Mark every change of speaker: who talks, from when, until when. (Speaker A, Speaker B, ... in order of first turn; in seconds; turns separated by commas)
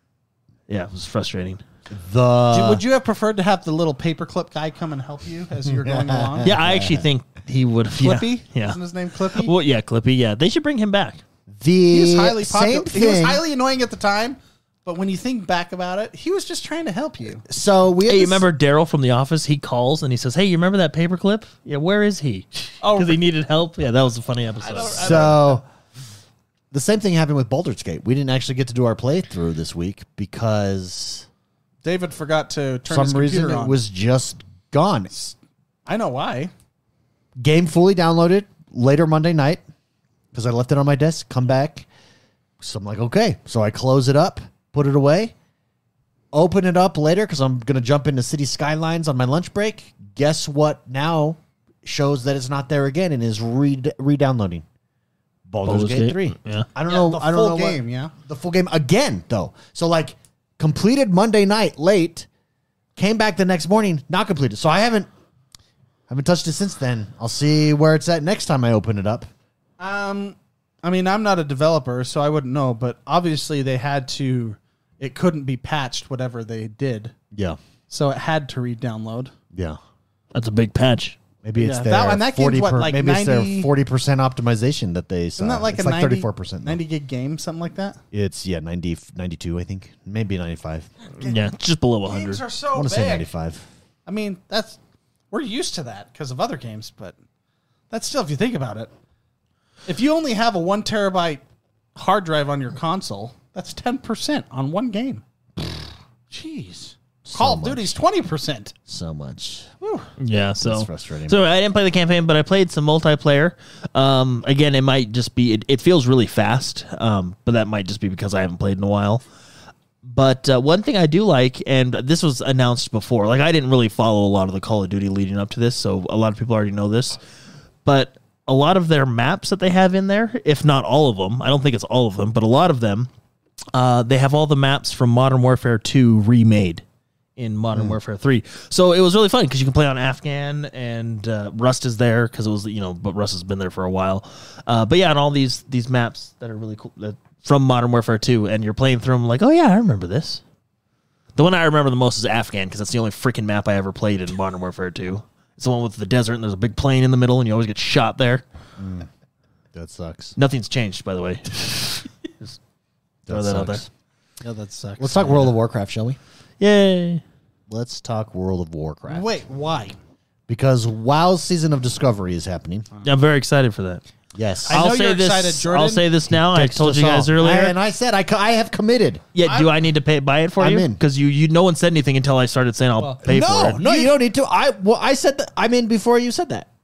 Speaker A: 0.7-1.6, Speaker B: 1.9-2.8, Speaker C: 2.5-6.5, Speaker B: 5.7-7.0, Speaker A: 6.4-8.8, Speaker C: 7.9-9.5, Speaker A: 9.3-11.2, Speaker B: 11.5-13.4, Speaker C: 11.9-17.4, Speaker B: 17.5-18.4, Speaker A: 18.1-25.3, Speaker C: 22.8-23.2, Speaker C: 24.6-25.6, Speaker B: 25.0-25.6, Speaker B: 26.7-31.3, Speaker C: 31.8-33.8, Speaker B: 32.9-35.1, Speaker C: 35.9-36.5, Speaker B: 37.4-39.6, Speaker B: 40.3-41.9, Speaker B: 42.6-45.3, Speaker B: 46.3-54.6, Speaker B: 55.5-62.3, Speaker A: 55.6-56.7, Speaker C: 56.9-58.1, Speaker B: 63.0-65.1, Speaker B: 66.1-69.3, Speaker C: 69.8-77.1, Speaker B: 77.3-77.6, Speaker C: 77.9-79.3, Speaker B: 79.5-79.8, Speaker A: 80.3-81.2, Speaker B: 81.4-86.8, Speaker C: 81.6-83.7, Speaker C: 85.4-88.0, Speaker B: 88.1-90.9, Speaker A: 91.2-92.4, Speaker C: 92.0-93.3, Speaker B: 92.7-93.6, Speaker C: 94.0-94.8, Speaker C: 95.3-97.2, Speaker C: 97.9-98.9, Speaker C: 99.9-101.4, Speaker C: 102.0-105.2, Speaker C: 106.3-108.8, Speaker B: 107.2-107.9, Speaker B: 108.9-109.7, Speaker A: 110.2-119.2, Speaker B: 110.6-111.4, Speaker A: 120.0-127.2, Speaker A: 127.8-133.1, Speaker A: 133.7-136.8, Speaker A: 137.4-150.4, Speaker A: 151.3-158.4, Speaker B: 158.8-159.1, Speaker B: 159.7-160.3, Speaker A: 160.4-162.6, Speaker B: 163.3-163.9, Speaker A: 163.3-163.8, Speaker C: 164.4-165.5, Speaker B: 165.0-166.2, Speaker A: 166.6-167.2, Speaker B: 167.7-169.3, Speaker C: 169.1-169.9, Speaker B: 170.5-172.9, Speaker A: 173.0-174.0, Speaker B: 174.3-174.8, Speaker C: 174.7-176.1, Speaker A: 174.7-177.7, Speaker B: 176.3-179.2, Speaker A: 179.3-183.8, Speaker C: 179.4-179.7, Speaker B: 180.6-181.0, Speaker C: 183.0-184.1, Speaker B: 183.2-186.7